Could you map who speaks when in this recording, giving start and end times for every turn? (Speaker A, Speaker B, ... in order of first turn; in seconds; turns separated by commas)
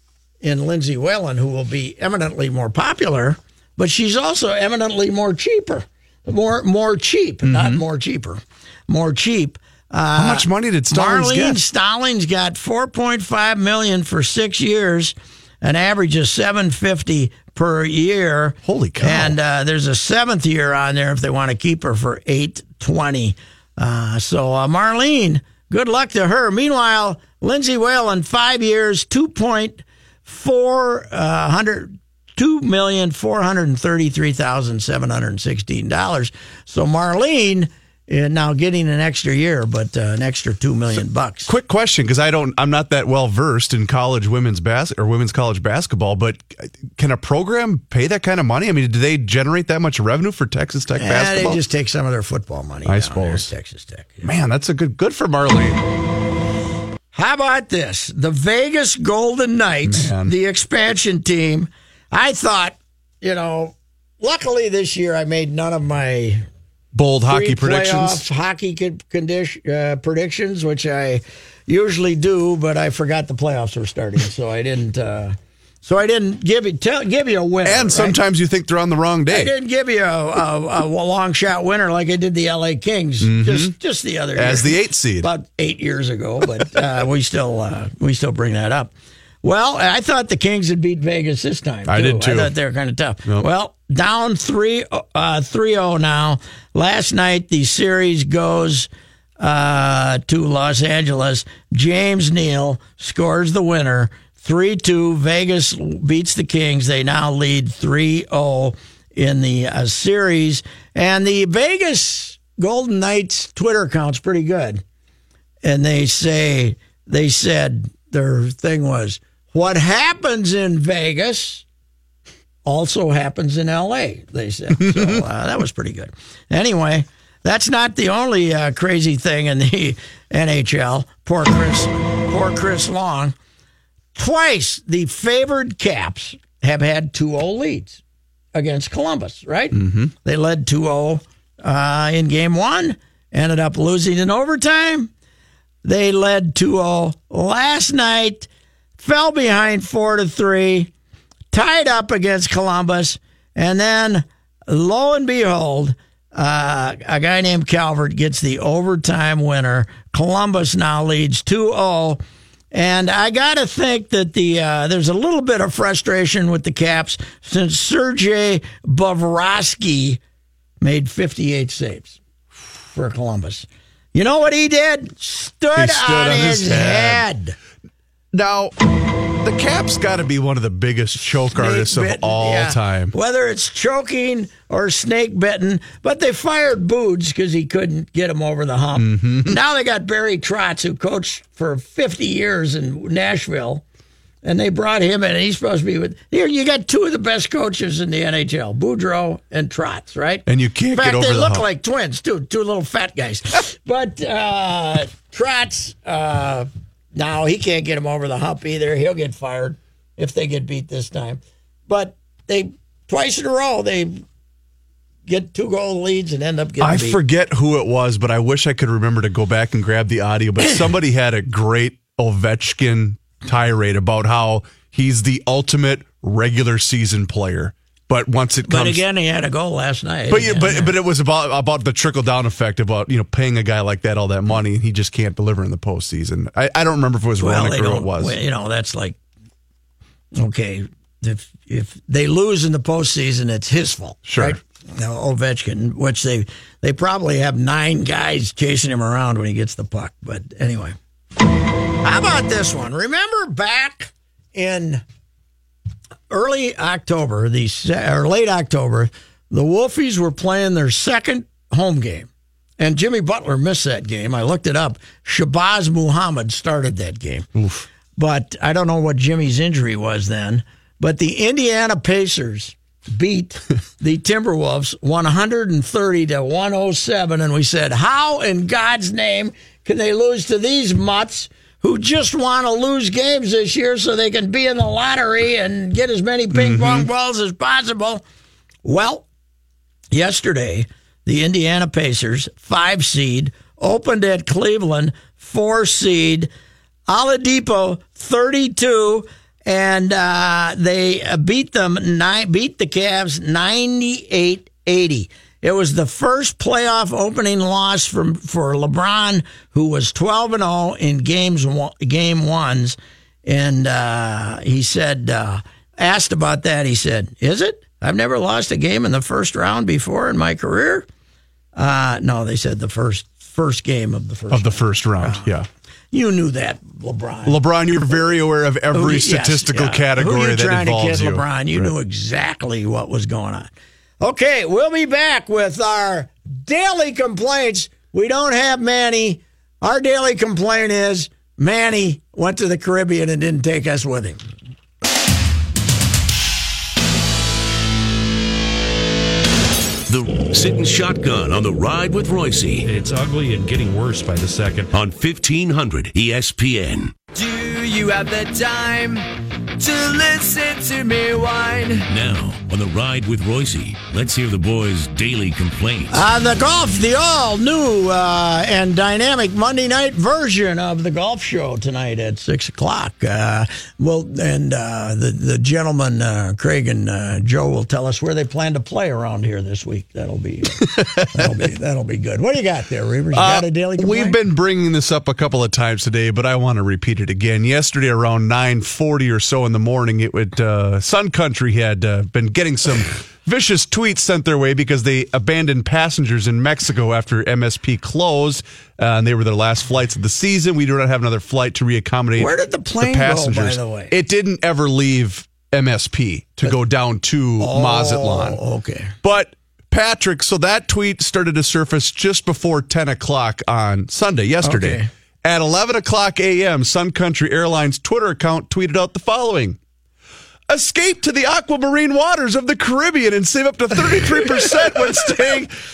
Speaker A: 0.4-41.5, Speaker B: 7.5-7.8, Speaker B: 10.2-11.6, Speaker B: 18.6-19.4, Speaker B: 41.5-51.6, Speaker A: 51.0-54.3, Speaker B: 52.9-53.5, Speaker B: 54.2-55.8, Speaker A: 57.1-66.5, Speaker B: 59.9-60.3, Speaker B: 66.9-68.2, Speaker A: 67.2-78.2, Speaker B: 77.6-79.5, Speaker A: 79.3-88.9, Speaker B: 83.2-83.7, Speaker B: 84.4-85.3, Speaker A: 89.4-98.9, Speaker B: 91.9-92.5, Speaker A: 99.4-114.8, Speaker A: 115.6-121.7, Speaker A: 122.7-133.3, Speaker A: 134.2-138.0, Speaker A: 138.6-145.1, Speaker B: 139.7-140.1, Speaker A: 145.8-148.5, Speaker A: 149.0-150.9, Speaker A: 151.5-162.2, Speaker A: 162.7-170.2, Speaker A: 170.8-172.2, Speaker A: 172.9-177.6, Speaker B: 175.8-177.2, Speaker B: 178.3-178.8, Speaker B: 179.4-183.2, Speaker A: 181.5-193.8, Speaker B: 189.0-189.6, Speaker A: 194.4-214.2, Speaker B: 200.5-201.7, Speaker A: 215.3-217.2, Speaker B: 216.8-229.0, Speaker A: 228.7-230.9, Speaker B: 230.3-238.4, Speaker A: 237.4-239.2, Speaker A: 240.4-251.0, Speaker B: 244.3-244.6, Speaker A: 252.0-255.0, Speaker A: 256.3-267.5, Speaker B: 267.6-267.9, Speaker A: 268.2-288.2, Speaker B: 286.5-287.1, Speaker A: 288.9-289.2, Speaker A: 290.1-296.5, Speaker A: 297.1-321.1, Speaker A: 321.8-325.5, Speaker B: 324.5-325.7, Speaker A: 326.1-327.6, Speaker B: 327.5-331.9, Speaker A: 328.9-333.7, Speaker A: 334.2-344.4, Speaker C: 350.1-352.9, Speaker D: 352.9-354.9, Speaker C: 354.9-357.1, Speaker E: 357.3-359.2, Speaker E: 359.8-362.1, Speaker C: 362.1-366.2, Speaker A: 366.1-384.4, Speaker B: 380.8-381.5, Speaker B: 383.3-408.6, Speaker A: 402.4-404.1, Speaker A: 407.6-409.1, Speaker B: 409.2-419.8, Speaker A: 414.6-415.1, Speaker B: 420.7-425.7